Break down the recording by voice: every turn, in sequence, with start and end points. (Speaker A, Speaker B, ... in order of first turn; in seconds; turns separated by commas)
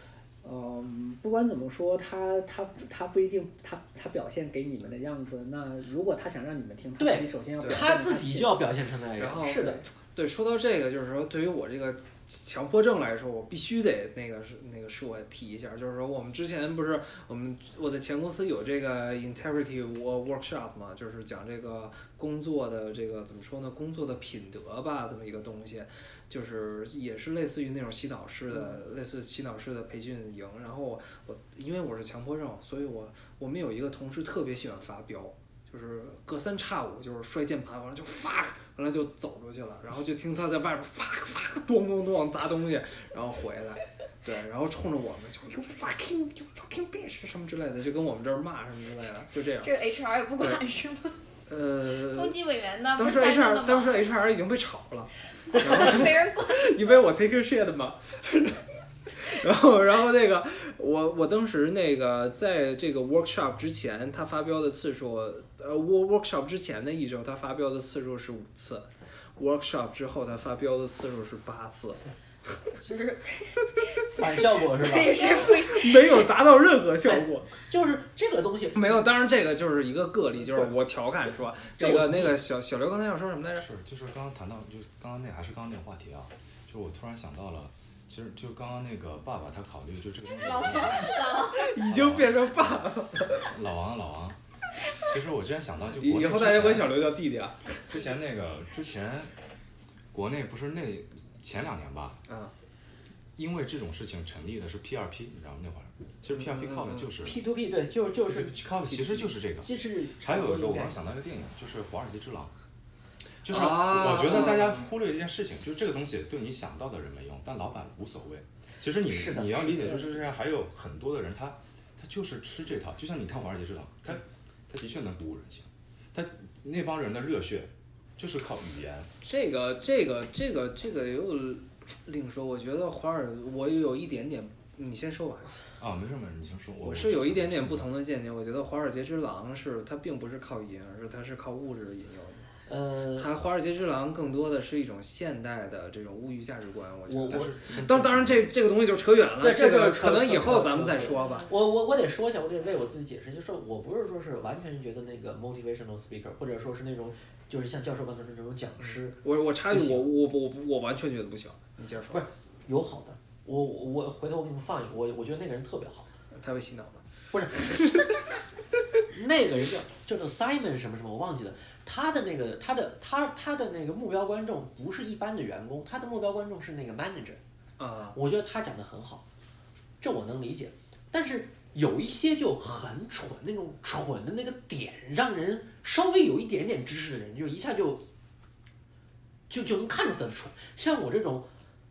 Speaker A: 0.4-8.6, Speaker B: 7.0-9.9, Speaker C: 7.6-7.9, Speaker C: 9.2-49.7, Speaker D: 49.6-51.2, Speaker C: 51.5-52.4, Speaker E: 52.0-54.0, Speaker C: 52.9-72.0, Speaker D: 55.5-56.7, Speaker D: 72.8-76.2, Speaker B: 74.1-75.5, Speaker C: 75.2-77.5, Speaker B: 77.0-79.1, Speaker C: 78.7-83.7, Speaker B: 80.4-80.7, Speaker B: 81.8-82.4, Speaker F: 83.6-91.2, Speaker E: 90.9-91.3, Speaker C: 91.3-93.5, Speaker F: 91.8-94.4, Speaker F: 94.9-97.0, Speaker C: 96.0-97.8, Speaker F: 97.9-99.3, Speaker F: 100.1-102.2, Speaker C: 102.3-102.5, Speaker F: 103.3-107.5, Speaker C: 106.3-107.1, Speaker B: 107.2-111.0, Speaker F: 108.2-112.5, Speaker F: 113.4-129.1, Speaker C: 113.5-114.8, Speaker B: 119.0-120.2, Speaker C: 129.2-135.6, Speaker F: 135.8-137.9, Speaker C: 136.8-142.5, Speaker B: 142.7-143.3, Speaker C: 143.2-151.5, Speaker B: 147.1-147.6, Speaker F: 147.3-148.5, Speaker B: 149.4-160.1, Speaker C: 158.8-162.2, Speaker B: 162.1-166.1, Speaker C: 166.3-168.3, Speaker B: 167.3-167.9, Speaker B: 169.1-177.4, Speaker C: 177.8-178.2, Speaker B: 178.1-179.2, Speaker B: 180.0-188.0, Speaker B: 189.5-191.5